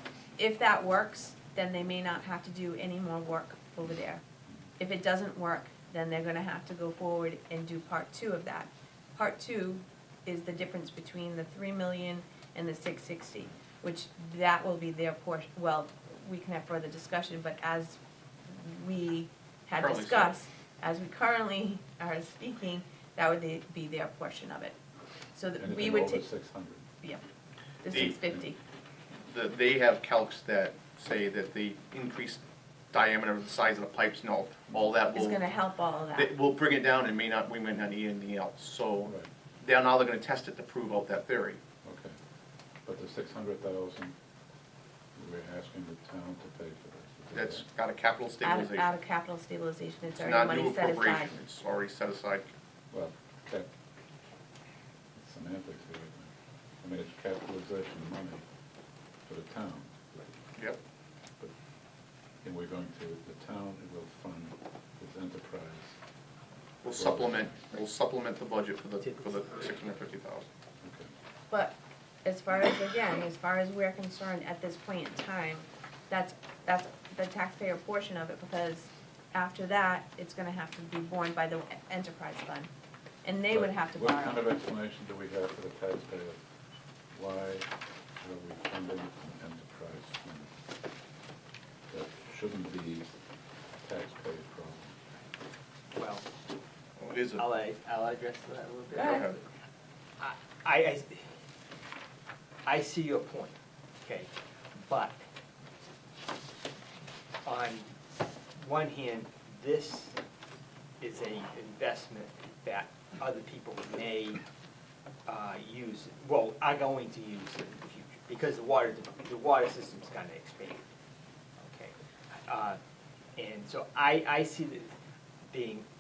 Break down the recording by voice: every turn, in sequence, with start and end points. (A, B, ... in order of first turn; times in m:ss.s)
0:00.4-0:04.2 A
0:04.8-0:24.8 A
0:19.8-0:20.4 B
0:25.3-0:26.3 A
0:25.6-0:26.8 C
0:27.8-0:28.6 A
0:27.9-0:28.5 C
0:29.2-0:35.4 B
0:35.1-0:36.3 A
0:36.2-0:41.6 B
0:39.0-0:39.3 C
0:41.8-0:42.2 C
0:42.8-0:44.2 C
0:45.2-0:47.7 C
0:47.3-0:48.9 B
0:48.4-0:51.3 A
0:50.2-0:52.5 B
0:52.9-0:53.7 C
0:55.1-0:58.4 C
0:59.2-0:59.9 C
1:02.4-1:06.0 C
1:06.8-1:10.5 B
1:06.9-1:07.7 C
1:09.0-1:09.3 D
1:10.8-1:11.1 C
1:11.5-1:22.7 A
1:23.2-1:24.5 A
1:23.5-1:26.4 C
1:27.1-1:30.5 C
1:31.9-1:33.1 C
1:33.8-1:34.9 C
1:35.9-1:36.2 D
1:37.0-1:37.4 B
1:37.4-1:39.5 D
1:38.9-1:39.3 B
1:39.0-1:39.2 A
1:40.2-1:41.2 D
1:42.6-1:45.2 D
1:47.4-1:47.9 D
1:48.6-1:50.2 D
1:51.0-1:54.4 D
1:55.3-2:00.9 D
2:01.6-2:02.8 D
2:03.4-2:04.9 D
2:05.5-2:05.9 D